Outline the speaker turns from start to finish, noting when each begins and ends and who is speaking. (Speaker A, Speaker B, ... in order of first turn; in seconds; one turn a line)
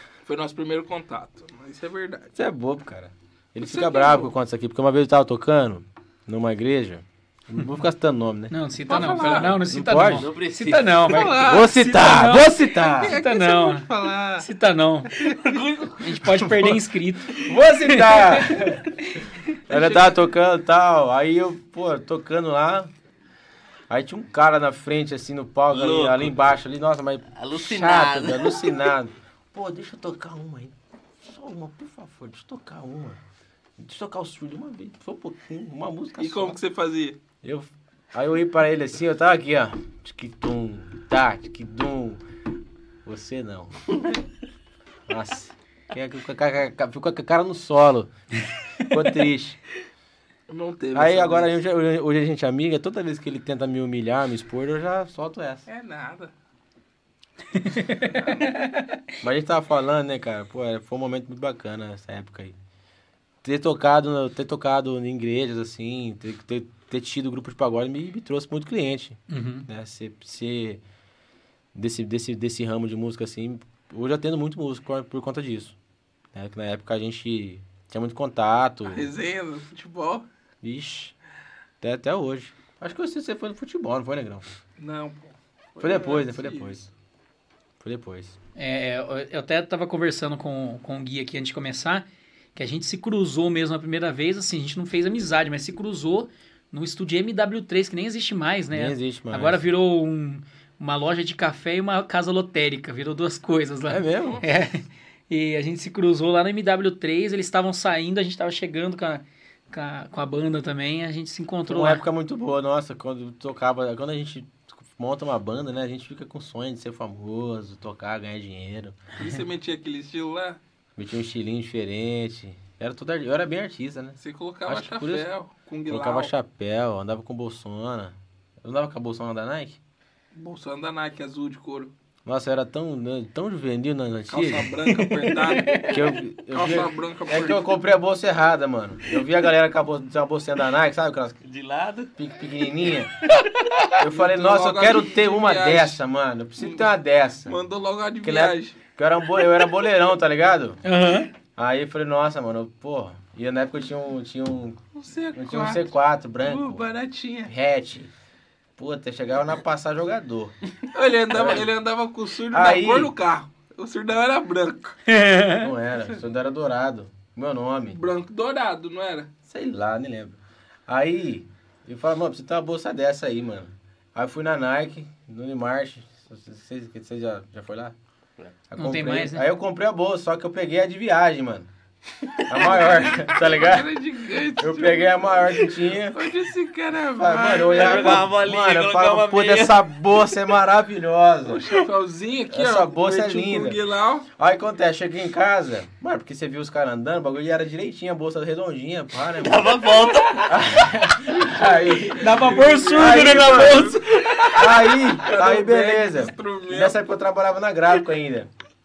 Speaker A: 0.2-2.4
Speaker B: 2.4-10.3
Speaker A: 3.6-4.3
Speaker C: 8.5-19.1
Speaker A: 8.9-9.6
Speaker D: 10.1-11.2
Speaker A: 11.0-11.8
Speaker B: 11.3-13.2
Speaker A: 12.8-14.5
Speaker A: 15.2-15.9
Speaker B: 16.4-16.8
Speaker B: 17.3-18.9
Speaker A: 19.7-20.1
Speaker B: 19.7-22.9
Speaker B: 23.9-33.2
Speaker D: 25.7-26.3
Speaker D: 27.4-28.8
Speaker B: 33.8-36.6
Speaker A: 36.2-37.2
Speaker B: 37.4-42.2
Speaker B: 43.0-44.2
Speaker B: 45.1-49.6
Speaker A: 50.5-51.5
Speaker B: 50.9-55.6
Speaker A: 55.7-56.3
Speaker C: 57.5-59.0
Speaker B: 59.2-62.5
Speaker B: 63.4-70.8
Speaker C: 69.3-69.7
Speaker B: 71.7-75.7
Speaker B: 76.3-79.1
Speaker A: 78.8-80.2
Speaker B: 80.6-81.1
Speaker B: 81.8-84.5
Speaker A: 84.8-86.8
Speaker B: 85.8-86.9
Speaker B: 87.8-88.3
Speaker C: 88.5-112.0
Speaker B: 98.7-99.7
Speaker B: 103.9-104.4
Speaker B: 111.7-119.0
Speaker A: 119.2-120.6
Speaker B: 121.0-125.3
Speaker A: 124.2-126.3
Speaker B: 125.9-129.8
Speaker A: 130.3-131.9
Speaker B: 132.2-134.8
Speaker A: 134.3-135.9
Speaker C: 134.8-136.0
Speaker B: 135.9-141.4
Speaker A: 136.5-137.6
Speaker D: 141.4-142.1
Speaker B: 142.2-143.2
Speaker C: 143.3-143.9
Speaker B: 144.0-147.6
Speaker A: 144.1-146.0
Speaker A: 146.6-146.9
Speaker A: 147.5-148.8
Speaker B: 148.2-150.8
Speaker C: 150.8-151.3
Speaker B: 151.6-156.8
Speaker A: 154.9-155.8
Speaker A: 156.4-157.5
Speaker B: 157.4-158.1
Speaker B: 158.8-160.5
Speaker A: 160.9-165.0
Speaker B: 161.3-161.7
Speaker B: 162.5-163.1
Speaker C: 165.1-165.7
Speaker B: 165.6-168.0
Speaker A: 167.9-169.3
Speaker B: 169.4-177.9
Speaker B: 178.7-181.7
Speaker C: 178.8-179.4
Speaker B: 182.4-183.9
Speaker A: 182.5-188.3
Speaker B: 184.6-186.2
Speaker B: 187.2-191.7
Speaker D: 187.7-189.9
Speaker A: 191.4-194.3
Speaker B: 192.5-193.8
Speaker B: 194.3-199.8
Speaker D: 199.4-200.6
Speaker B: 200.4-203.9
Speaker A: 201.4-204.0
Speaker C: 201.9-205.1
Speaker B: 204.5-208.5
Speaker A: 205.2-207.0